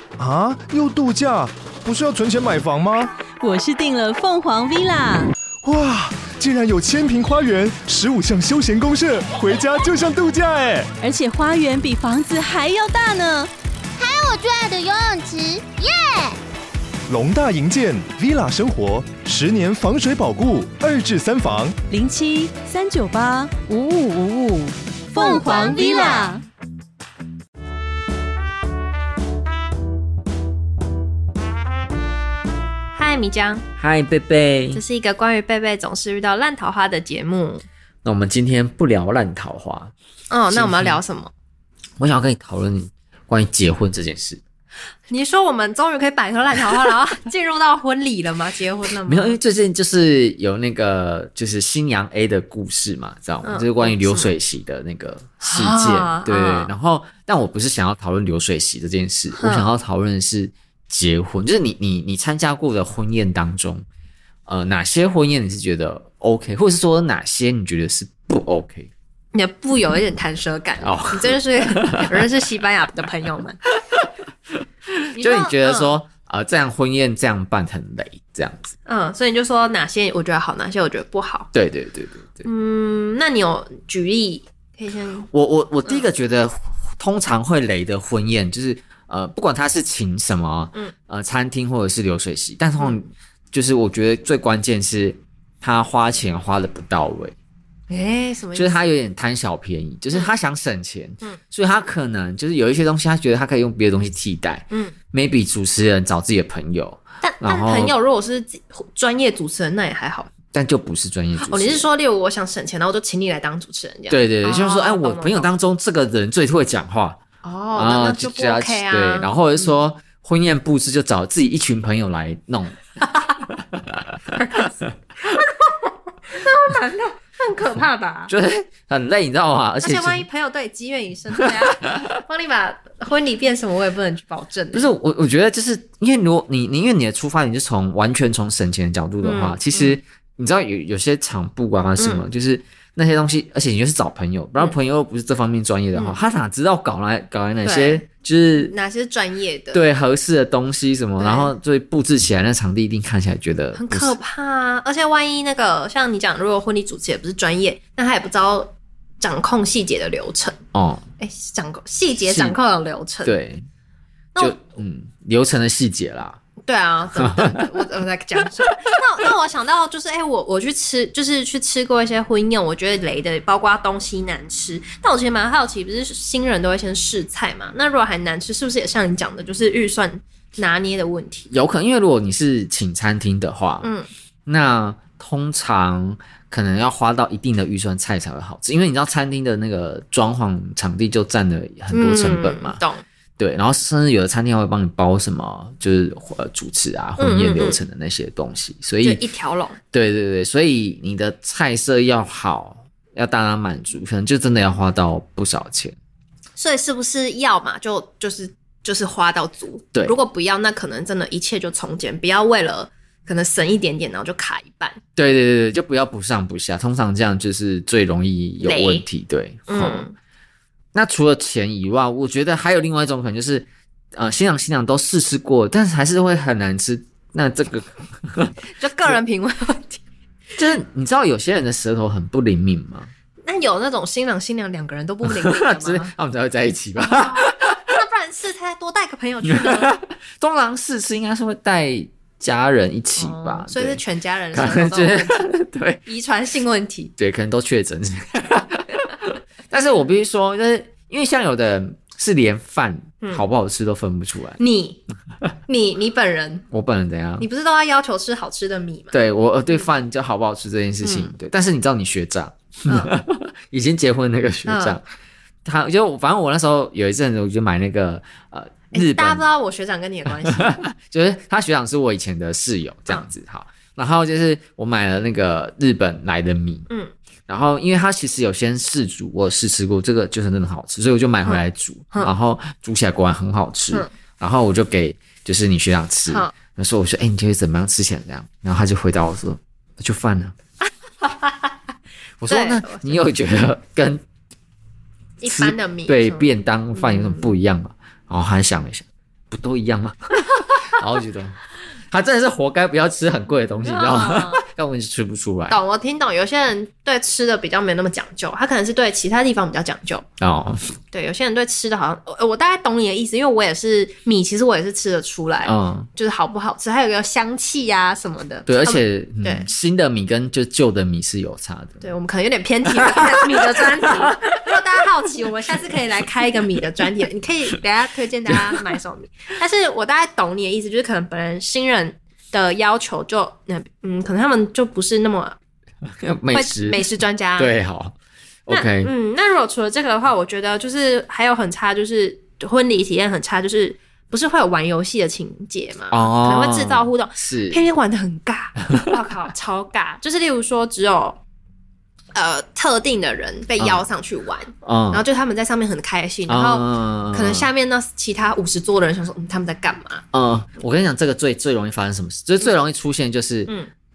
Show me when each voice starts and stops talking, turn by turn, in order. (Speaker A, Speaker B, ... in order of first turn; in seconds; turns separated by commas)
Speaker A: 0.2-3.1, Speaker B: 3.4-5.3, Speaker A: 5.6-10.9, Speaker B: 11.0-13.5, Speaker C: 14.0-16.4, Speaker A: 17.1-21.8, Speaker B: 21.9-26.4, Speaker C: 25.2-26.4, Speaker D: 25.3-26.3, Speaker D: 32.9-33.6, Speaker E: 33.8-34.8, Speaker D: 34.7-37.6, Speaker E: 38.0-39.9, Speaker D: 40.3-41.3, Speaker E: 40.5-41.0, Speaker E: 42.0-44.4, Speaker D: 45.1-49.4, Speaker E: 49.0-63.8, Speaker D: 53.4-54.3, Speaker D: 55.4-56.7, Speaker D: 59.3-59.7, Speaker E: 64.5-68.9, Speaker D: 69.3-73.6, Speaker E: 70.8-72.3, Speaker E: 74.9-78.7, Speaker D: 75.1-75.9, Speaker D: 78.8-81.5, Speaker E: 81.5-82.5, Speaker D: 82.4-85.3, Speaker E: 85.3-97.3, Speaker D: 92.8-93.0, Speaker D: 97.9-98.8, Speaker E: 98.5-107.9, Speaker D: 107.2-110.3, Speaker E: 110.5-111.9, Speaker D: 111.4-115.5, Speaker E: 114.1-117.2, Speaker D: 117.4-119.7, Speaker E: 117.7-122.8, Speaker E: 123.7-124.0, Speaker D: 124.3-128.3, Speaker E: 128.3-130.2, Speaker D: 129.8-134.9, Speaker E: 134.7-148.7, Speaker D: 139.2-140.0, Speaker D: 142.0-142.2, Speaker D: 147.6-148.0, Speaker D: 148.6-149.8, Speaker E: 149.7-154.2, Speaker D: 151.2-151.5, Speaker D: 153.7-160.6, Speaker E: 160.7-161.1, Speaker D: 161.2-163.3, Speaker E: 162.2-162.6, Speaker E: 163.2-163.7, Speaker E: 164.4-166.4, Speaker D: 166.6-181.5, Speaker E: 167.1-167.7, Speaker E: 181.5-183.9, Speaker D: 183.8-184.1, Speaker E: 184.4-192.8, Speaker D: 191.9-193.0, Speaker E: 193.4-199.2, Speaker D: 197.2-197.8, Speaker D: 199.0-199.8, Speaker E: 199.9-205.9, Speaker D: 206.6-215.0, Speaker E: 215.2-220.1, Speaker D: 218.6-219.0, Speaker D: 219.7-220.1, Speaker E: 220.9-228.5, Speaker D: 228.8-230.0, Speaker E: 230.6-233.1, Speaker D: 233.4-236.1, Speaker E: 235.2-237.9, Speaker D: 237.0-240.0, Speaker E: 239.5-244.0, Speaker D: 243.2-245.5, Speaker E: 244.5-246.0, Speaker D: 246.1-247.1, Speaker E: 247.2-254.6, Speaker D: 254.6-255.0, Speaker D: 255.7-256.6, Speaker E: 256.7-257.4, Speaker D: 257.4-259.1, Speaker E: 259.1-265.0, Speaker D: 261.0-261.3, Speaker D: 262.9-263.1, Speaker D: 264.6-265.0, Speaker E: 265.6-269.4, Speaker D: 268.9-270.8, Speaker E: 270.5-276.9, Speaker E: 277.5-290.5, Speaker D: 281.4-282.3, Speaker D: 291.2-291.7, Speaker E: 292.4-294.2, Speaker D: 292.5-293.2, Speaker D: 295.4-297.5, Speaker E: 295.4-301.6, Speaker E: 302.1-305.8, Speaker D: 303.9-304.6, Speaker D: 305.7-310.2, Speaker E: 310.4-311.0, Speaker D: 311.1-319.7, Speaker E: 315.6-316.1, Speaker E: 318.6-322.1, Speaker D: 322.0-335.6, Speaker E: 323.0-324.3, Speaker E: 336.2-337.0, Speaker D: 336.5-337.7, Speaker E: 337.6-339.1, Speaker D: 338.7-351.4, Speaker E: 346.1-347.8, Speaker D: 352.3-360.2, Speaker E: 354.8-355.2, Speaker E: 356.5-357.7, Speaker E: 360.3-363.7